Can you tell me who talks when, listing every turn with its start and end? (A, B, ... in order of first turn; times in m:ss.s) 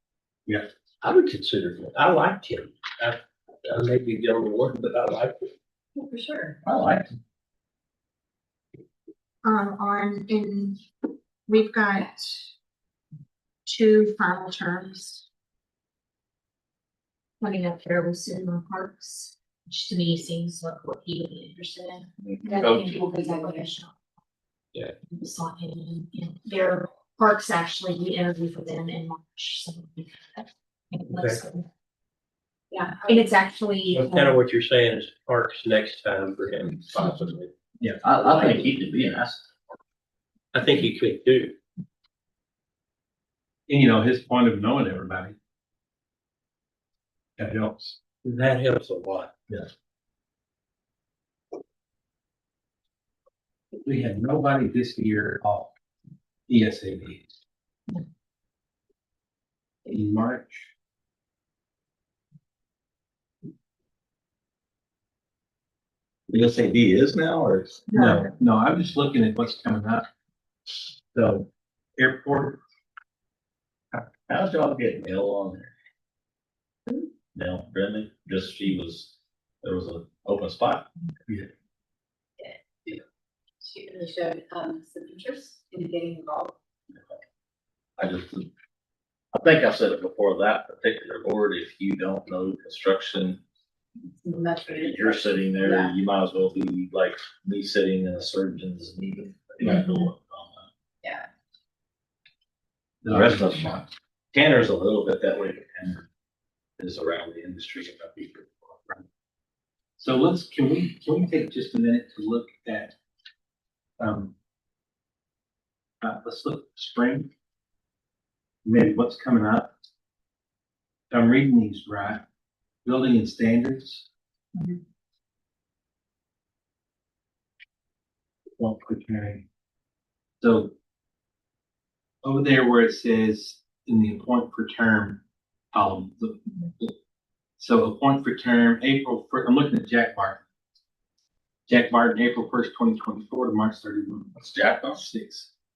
0:01.0-0:05.4 A
0:05.9-0:06.6 B
0:09.4-0:10.8 C
0:11.5-0:12.5 C
0:13.6-0:15.2 C
0:17.4-0:23.9 C
0:22.2-0:22.7 D
0:22.4-0:23.7 B
0:25.0-0:31.6 C
0:32.7-0:33.4 B
0:33.1-0:34.4 C
0:33.9-0:37.5 A
0:38.0-0:39.6 D
0:40.5-0:41.5 A
0:43.7-0:45.4 E
0:47.4-0:48.2 E
0:48.2-0:49.3 A
0:53.8-0:55.7 E
0:56.5-0:57.3 E
0:59.8-1:00.7 E
1:06.3-1:08.0 D
1:07.9-1:08.2 C
1:08.0-1:10.1 E
1:11.1-1:12.6 E
1:14.3-1:15.7 D
1:17.3-1:20.9 D
1:22.4-1:23.0 B
1:23.6-1:26.6 B
1:28.0-1:28.5 D
1:29.3-1:33.4 D
1:34.1-1:36.0 B
1:34.7-1:40.7 D
1:41.0-1:41.3 B
1:43.0-1:43.8 E
1:43.0-1:46.0 D
1:46.8-1:48.8 D
1:50.0-1:53.0 E
1:54.0-1:54.3 E
1:56.0-1:57.3 E
1:58.6-1:59.7 E
2:01.1-2:02.2 E
2:02.8-2:04.0 E
2:04.5-2:04.8 C
2:08.6-2:09.4 E
2:10.4-2:10.7 E
2:12.2-2:15.2 E
2:15.7-2:16.9 E
2:17.6-2:20.4 E
2:21.7-2:24.3 E
2:24.3-2:25.1 D
2:24.9-2:25.5 E